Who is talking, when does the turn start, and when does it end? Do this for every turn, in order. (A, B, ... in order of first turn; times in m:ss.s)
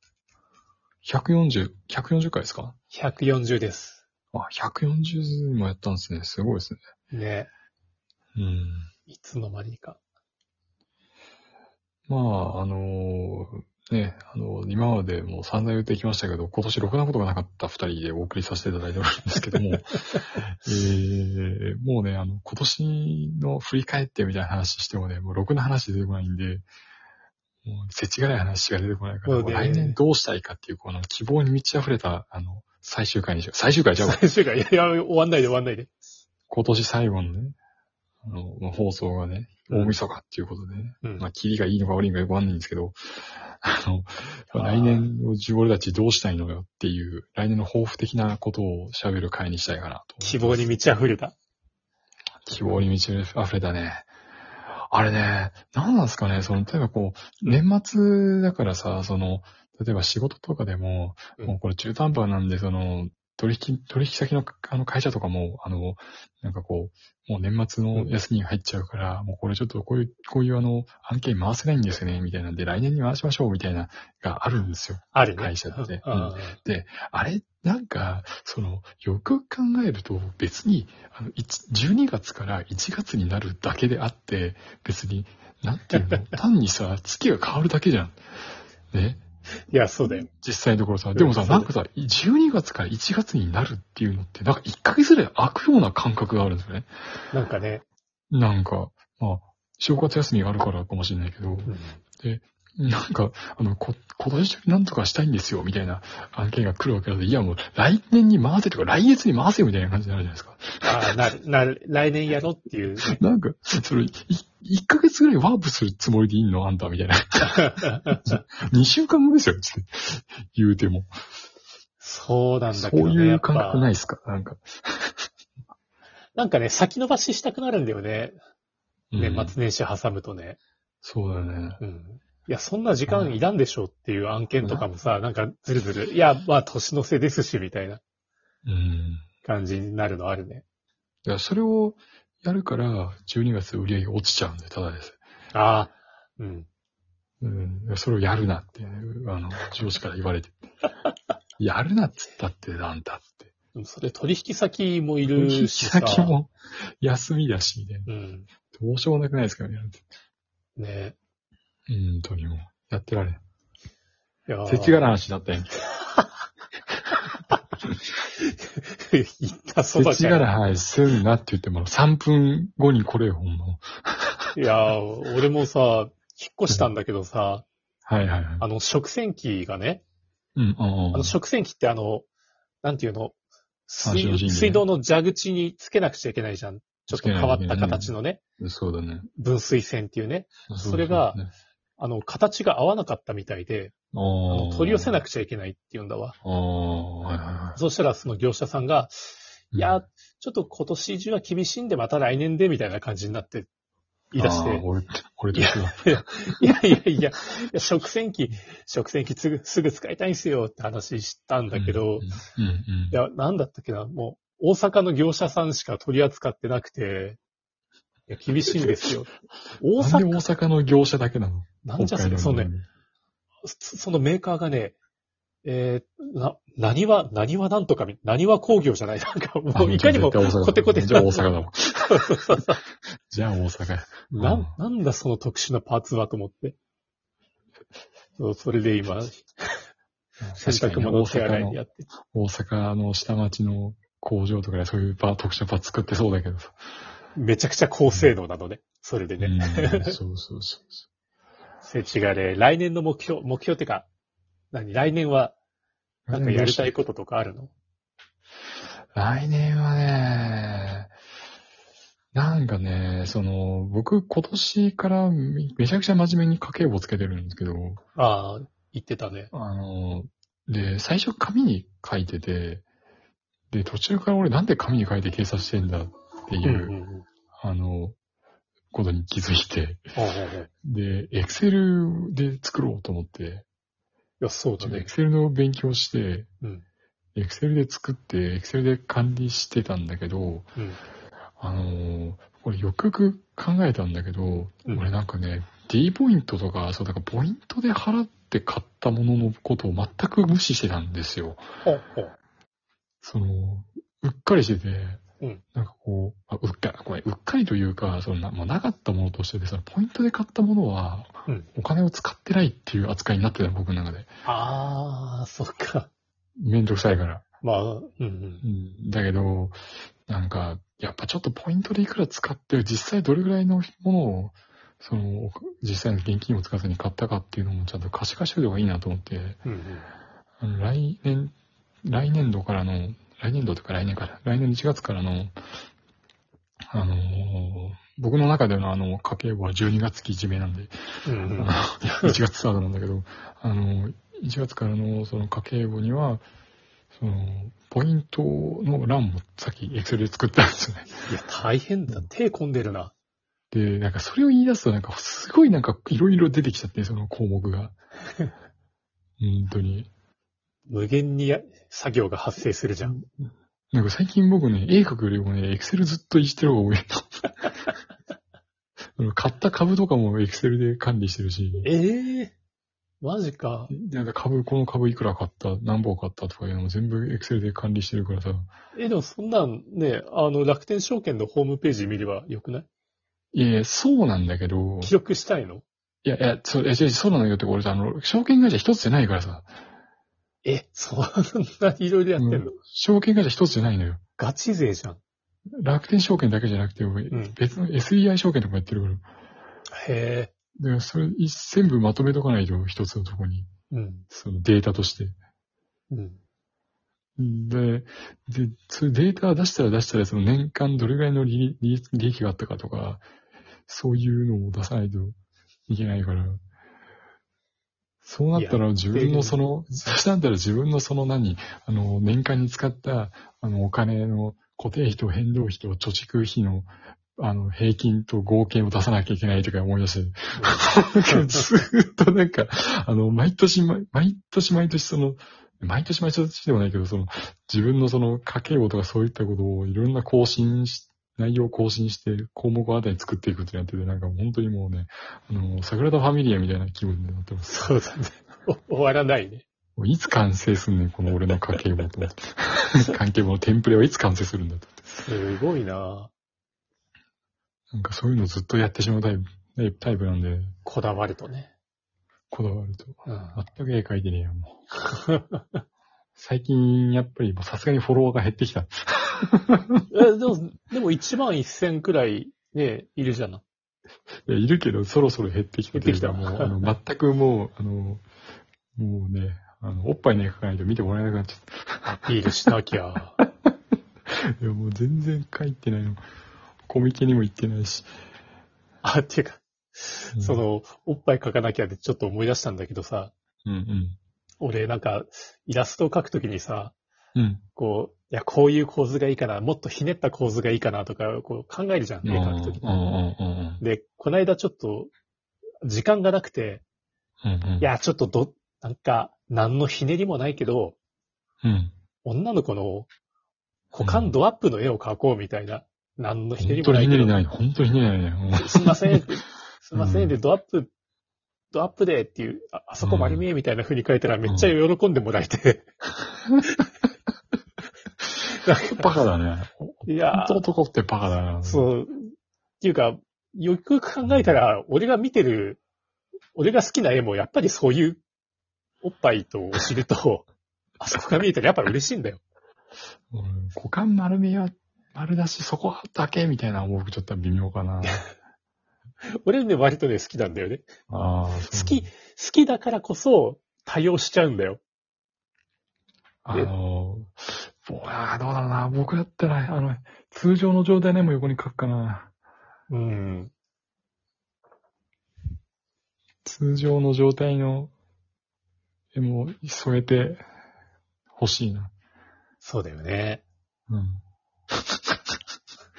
0:01.0-0:02.8 A
0:02.9-0:04.0 B
0:04.3-0:06.8 A
0:07.1-0:07.5 B
0:08.4-0:08.9 A
0:09.1-0:10.0 B
0:12.1-0:26.6 A
0:27.6-0:34.2 A
0:29.2-0:30.0 B
0:34.0-0:35.9 B
0:36.5-0:37.6 A
0:38.2-0:50.7 A
0:39.7-0:40.0 B
0:44.5-0:45.1 B
0:50.2-0:51.3 B
0:52.4-0:54.1 A
0:52.5-0:52.8 B
0:54.7-1:28.2 A
1:15.1-1:16.6 B
1:28.9-1:29.2 A
1:29.7-1:30.3 B
1:30.0-1:36.9 A
1:31.1-1:31.7 B
1:37.3-1:37.8 B
1:38.3-1:51.1 A
1:41.7-1:42.0 B
1:50.8-1:53.2 B
1:53.0-2:01.1 A
1:57.4-1:58.3 B
2:02.0-2:03.9 B
2:02.7-2:05.3 A
2:06.4-2:08.4 B
2:09.1-2:09.5 A
2:09.2-2:10.6 B
2:11.0-2:11.8 A
2:11.8-2:18.0 B
2:13.1-2:13.4 A
2:14.6-2:14.9 A
2:18.6-2:19.2 A
2:19.4-2:20.6 B
2:21.2-2:25.2 A
2:25.5-2:26.7 B
2:27.4-2:30.6 A
2:31.6-2:33.5 A
2:33.7-2:36.4 B
2:35.3-2:38.1 A
2:38.1-2:38.5 B
2:38.7-2:40.0 A
2:40.8-2:41.2 B
2:41.9-2:43.4 A
2:44.5-2:45.1 B
2:44.7-2:45.8 A
2:48.4-2:50.6 B
2:49.9-2:54.9 A
2:54.5-2:57.7 B
2:58.0-2:58.6 A
2:58.6-3:00.0 B
3:00.6-3:01.4 A
3:01.1-3:02.2 B
3:02.8-3:03.3 B
3:03.9-3:08.4 B
3:04.0-3:04.8 A
3:07.1-3:09.3 A
3:09.4-3:11.4 B
3:10.7-3:11.5 A
3:12.0-3:13.9 B
3:14.1-3:15.2 A
3:14.5-3:16.4 B
3:16.4-3:17.8 A
3:17.8-3:23.7 B
3:19.7-3:20.0 A
3:24.3-3:24.8 B
3:24.4-3:26.7 A
3:25.5-3:32.3 B
3:31.7-3:33.2 A
3:33.1-3:37.4 B
3:38.3-3:40.4 B
3:40.0-3:42.8 A
3:41.8-3:42.7 B
3:43.6-3:45.0 B
3:45.6-3:51.5 B
3:49.7-3:52.5 A
3:52.0-3:52.8 B
3:53.3-3:54.7 A
3:54.3-3:56.8 B
3:58.4-3:59.8 B
4:00.4-4:01.8 A
4:00.6-4:02.1 B
4:02.3-4:06.8 A
4:07.3-4:10.2 B
4:09.4-4:11.0 A
4:11.8-4:14.1 B
4:14.7-4:15.6 B
4:16.3-4:16.9 A
4:16.3-4:17.7 B
4:19.1-4:21.1 A
4:22.3-4:28.0 A
4:28.2-4:29.5 B
4:29.5-4:32.8 A
4:33.7-4:36.9 A
4:36.6-4:37.2 B
4:37.6-4:38.2 A
4:38.9-4:40.2 A
4:40.2-4:40.7 B
4:40.8-4:43.6 A
4:44.4-4:45.1 B
4:44.8-4:46.5 A
4:47.4-4:50.7 A
4:51.6-5:01.6 A
5:01.8-5:02.3 B
5:03.2-5:05.2 A
5:05.7-5:14.3 A
5:14.4-5:16.1 B
5:16.6-5:17.4 A
5:17.6-5:18.6 B
5:18.6-5:29.6 A
5:29.6-5:30.1 B
5:30.6-5:35.6 A
5:36.9-5:46.4 A
5:41.2-5:42.4 B
5:47.1-5:51.1 A
5:51.3-5:53.1 B
5:53.7-5:57.9 A
5:59.4-6:00.1 A
6:00.9-6:03.2 B
6:03.0-6:07.5 A
6:09.2-6:11.9 A
6:11.8-6:12.5 B
6:13.2-6:13.9 B
6:13.9-6:18.7 A
6:18.9-6:22.8 B
6:23.5-6:25.1 A
6:25.0-6:25.8 B
6:26.2-6:29.7 A
6:30.6-6:32.8 B
6:32.4-6:34.2 A
6:34.4-6:35.2 B
6:35.8-6:39.2 A
6:37.3-6:37.6 B
6:39.9-6:40.5 B
6:40.8-6:43.7 A
6:43.9-6:44.2 B
6:44.3-6:45.4 A
6:46.1-6:46.4 B
6:47.4-6:53.2 A
6:53.9-6:55.4 A
6:55.9-6:56.6 A
6:58.2-7:27.9 A
6:58.6-6:59.6 B
7:10.6-7:11.6 B
7:27.6-7:29.6 B
7:30.0-7:35.0 A
7:35.2-7:36.3 B
7:37.9-7:40.8 A
7:40.8-7:41.7 B
7:42.5-7:44.8 A
7:43.2-7:43.6 B
7:45.0-7:45.6 B
7:46.4-7:50.1 A
7:50.1-7:53.6 B
7:54.4-7:58.2 A
7:55.9-7:56.9 B
7:58.9-8:02.1 A
8:02.0-8:03.4 B
8:04.3-8:06.2 A
8:06.9-8:08.1 A
8:09.0-8:13.3 B
8:10.4-8:10.6 A
8:13.6-8:14.2 A
8:14.6-8:16.9 B
8:17.3-8:17.6 A
8:17.8-8:23.0 B
8:22.2-8:23.8 A
8:23.8-8:25.1 B
8:25.8-8:26.8 B
8:27.4-8:27.9 A
8:27.8-8:31.0 B
8:31.6-8:31.9 A
8:32.2-8:33.1 B
8:33.9-8:37.4 B
8:34.0-8:34.4 A
8:36.6-8:39.3 A
8:38.5-8:40.9 B
8:40.0-8:40.4 A
8:41.7-8:45.9 B
8:43.0-8:43.4 A
8:44.4-8:44.7 A
8:48.6-8:49.2 B
8:49.0-8:51.9 A
8:50.1-8:50.6 B
8:51.6-8:55.8 B
8:54.2-8:54.6 A
8:56.6-8:58.2 B
8:59.0-9:00.5 B
9:01.0-9:02.4 B
9:03.3-9:08.3 A
9:09.4-9:10.9 B
9:11.1-9:12.1 A
9:11.6-9:14.8 B
9:16.4-9:22.3 A
9:22.9-9:23.5 B
9:26.4-9:27.9 A
9:29.1-9:30.4 A
9:31.3-9:31.9 A
9:32.6-9:33.4 B
9:33.9-9:35.1 A